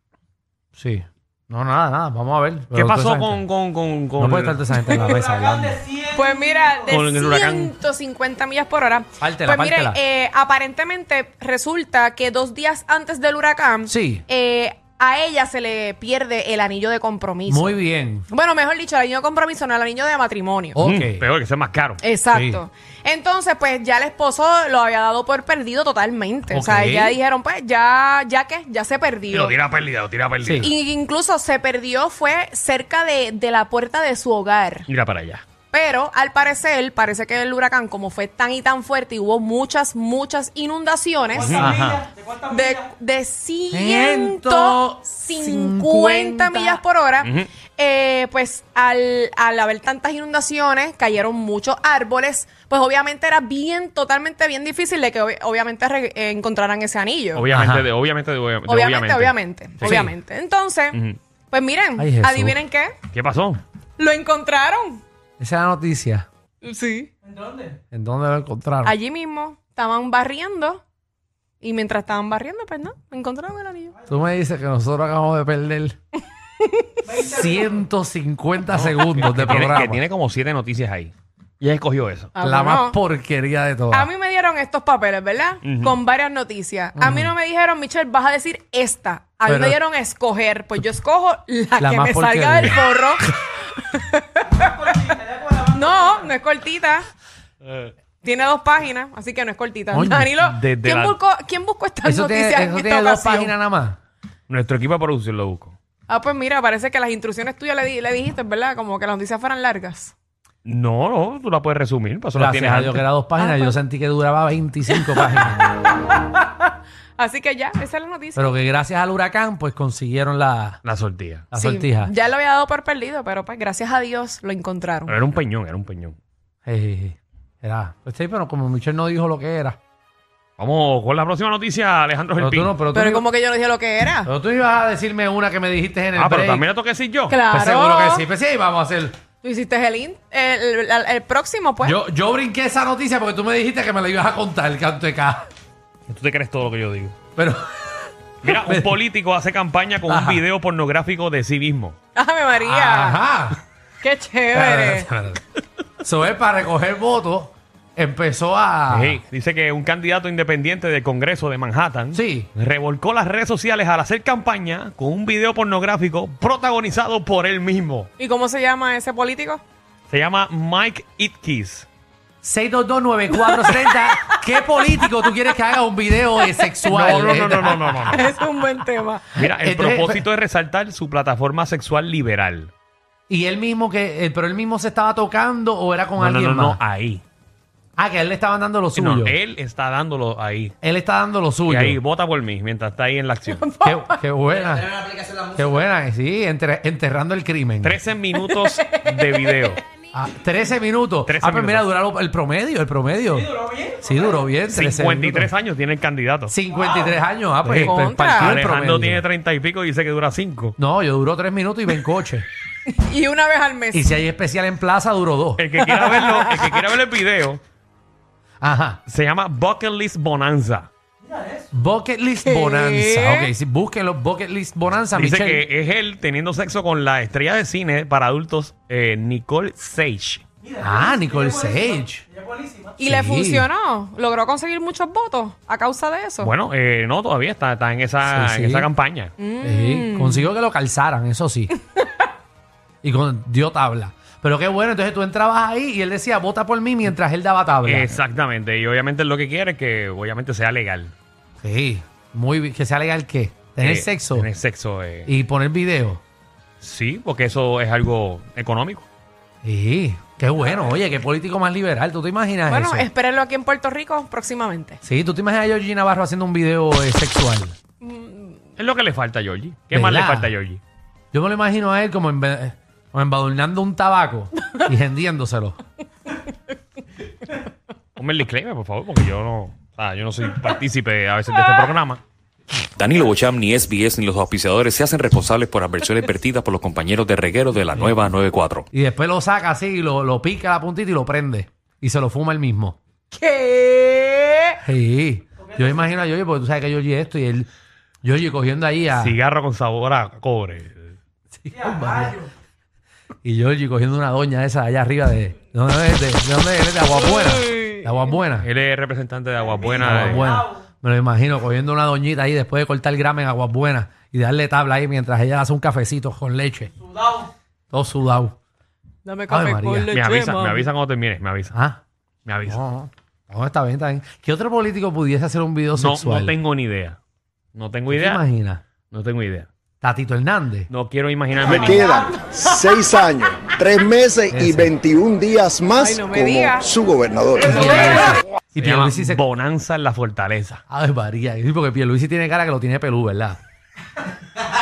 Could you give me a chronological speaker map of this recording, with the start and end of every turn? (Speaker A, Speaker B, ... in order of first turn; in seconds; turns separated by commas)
Speaker A: 0.8-3.4, Speaker B: 2.7-4.6, Speaker A: 4.2-5.8, Speaker C: 5.2-6.0, Speaker D: 6.1-17.8, Speaker B: 6.9-7.7, Speaker A: 9.2-10.0, Speaker A: 13.9-14.2, Speaker A: 17.5-18.3, Speaker D: 18.3-20.8, Speaker A: 20.8-21.3, Speaker B: 20.8-22.0, Speaker D: 22.0-29.6, Speaker A: 22.3-22.6, Speaker A: 26.5-27.2, Speaker B: 29.3-30.7, Speaker A: 30.4-30.7, Speaker D: 30.6-34.9, Speaker B: 34.9-35.4, Speaker D: 35.7-41.7, Speaker B: 41.4-41.7, Speaker A: 41.5-42.0, Speaker C: 41.6-42.3, Speaker D: 42.5-57.5, Speaker A: 43.7-46.8, Speaker B: 47.2-47.5, Speaker B: 57.3-60.1, Speaker A: 57.5-57.9, Speaker D: 58.7-63.0, Speaker A: 59.8-60.1, Speaker B: 60.9-61.2, Speaker A: 62.0-62.6, Speaker B: 63.1-63.6, Speaker D: 64.0-65.0, Speaker A: 65.4-66.3, Speaker D: 66.6-67.1, Speaker C: 67.3-67.6, Speaker A: 67.9-69.0, Speaker D: 68.8-70.8, Speaker D: 71.6-74.0, Speaker A: 74.1-76.0, Speaker D: 76.6-77.1, Speaker A: 77.1-80.0, Speaker B: 78.7-82.3, Speaker D: 82.3-83.0, Speaker A: 82.4-84.1, Speaker D: 83.9-97.1, Speaker B: 85.6-86.0, Speaker A: 87.0-87.3, Speaker A: 89.5-89.8, Speaker A: 91.8-93.4, Speaker B: 97.6-97.9, Speaker D: 98.2-103.5, Speaker A: 99.9-100.4, Speaker B: 100.4-101.2, Speaker A: 102.0-104.0, Speaker B: 104.5-105.8, Speaker D: 106.1-110.1, Speaker B: 110.7-113.1, Speaker A: 112.3-115.6, Speaker D: 113.4-113.8, Speaker D: 115.1-115.4, Speaker D: 116.7-118.5, Speaker A: 118.4-120.8, Speaker B: 120.8-121.5, Speaker A: 121.5-122.1, Speaker D: 121.5-125.2, Speaker B: 125.1-126.2, Speaker A: 126.7-129.8, Speaker B: 130.6-132.8, Speaker A: 132.4-133.2, Speaker D: 132.9-134.3, Speaker A: 134.3-136.7, Speaker B: 136.2-137.4, Speaker D: 137.3-138.3, Speaker A: 137.5-139.2, Speaker D: 139.4-142.0, Speaker A: 141.8-145.5, Speaker B: 146.1-147.2, Speaker A: 147.4-148.9, Speaker B: 148.4-152.0, Speaker A: 150.1-150.4, Speaker D: 152.2-153.2, Speaker A: 152.6-153.6, Speaker D: 154.0-155.1, Speaker A: 154.5-155.4, Speaker A: 156.0-159.2, Speaker B: 158.9-168.1, Speaker A: 162.1-162.5, Speaker D: 168.2-169.6, Speaker B: 170.1-171.9, Speaker A: 172.4-178.2, Speaker D: 173.7-174.3, Speaker D: 175.0-175.2, Speaker B: 176.9-178.3, Speaker D: 178.1-179.3, Speaker B: 179.3-182.7, Speaker A: 179.4-180.2, Speaker A: 183.3-186.8, Speaker B: 186.2-187.2, Speaker A: 188.0-189.4, Speaker B: 188.9-190.7, Speaker A: 190.8-192.0, Speaker B: 191.7-193.7, Speaker D: 193.6-194.2, Speaker A: 193.8-198.0, Speaker B: 197.8-199.8, Speaker D: 198.4-199.5, Speaker A: 200.1-205.5, Speaker B: 201.2-201.9, Speaker C: 203.6-204.0, Speaker B: 204.7-206.6, Speaker A: 206.5-209.2, Speaker B: 207.7-210.8, Speaker D: 207.8-208.6, Speaker A: 210.8-212.5, Speaker D: 212.9-214.1, Speaker A: 213.9-215.7, Speaker B: 215.6-217.6, Speaker D: 215.9-216.7, Speaker A: 218.6-219.0, Speaker B: 219.1-220.9, Speaker C: 221.3-221.7, Speaker A: 221.7-225.7, Speaker D: 222.4-223.5, Speaker B: 225.1-230.4, Speaker C: 230.7-231.7, Speaker A: 230.8-232.2, Speaker C: 232.3-232.9, Speaker D: 233.0-236.5, Speaker A: 233.0-233.7, Speaker B: 236.4-239.3, Speaker A: 238.2-238.9, Speaker D: 239.4-240.5, Speaker A: 239.6-241.7, Speaker D: 242.0-242.2, Speaker A: 243.0-248.2, Speaker B: 247.8-251.1, Speaker A: 251.6-254.5, Speaker B: 253.8-255.3, Speaker A: 255.3-256.2, Speaker B: 256.8-259.1, Speaker A: 259.6-263.1, Speaker D: 262.7-265.0, Speaker A: 265.0-267.8, Speaker D: 268.0-268.6, Speaker B: 268.8-270.8, Speaker A: 269.9-270.5, Speaker A: 271.3-275.8, Speaker B: 278.2-282.2, Speaker E: 283.0-288.9, Speaker A: 288.9-293.0, Speaker D: 293.3-294.8, Speaker A: 294.8-297.7, Speaker A: 298.2-299.4, Speaker B: 299.1-301.2, Speaker A: 301.6-302.5, Speaker A: 303.4-308.7, Speaker B: 308.6-310.5, Speaker A: 310.0-316.9, Speaker C: 317.2-317.5, Speaker A: 317.9-318.6, Speaker D: 319.2-320.9, Speaker A: 319.5-320.1, Speaker B: 320.1-321.8, Speaker A: 321.7-322.0, Speaker B: 322.5-322.8, Speaker A: 322.6-326.6, Speaker B: 325.9-327.2, Speaker B: 327.8-328.4, Speaker A: 328.1-328.8, Speaker B: 329.1-329.7, Speaker A: 330.0-330.9, Speaker B: 330.9-332.2, Speaker F: 331.6-338.3, Speaker A: 334.5-334.9, Speaker D: 336.0-336.9, Speaker A: 337.6-339.4, Speaker B: 338.8-340.8, Speaker A: 340.9-343.6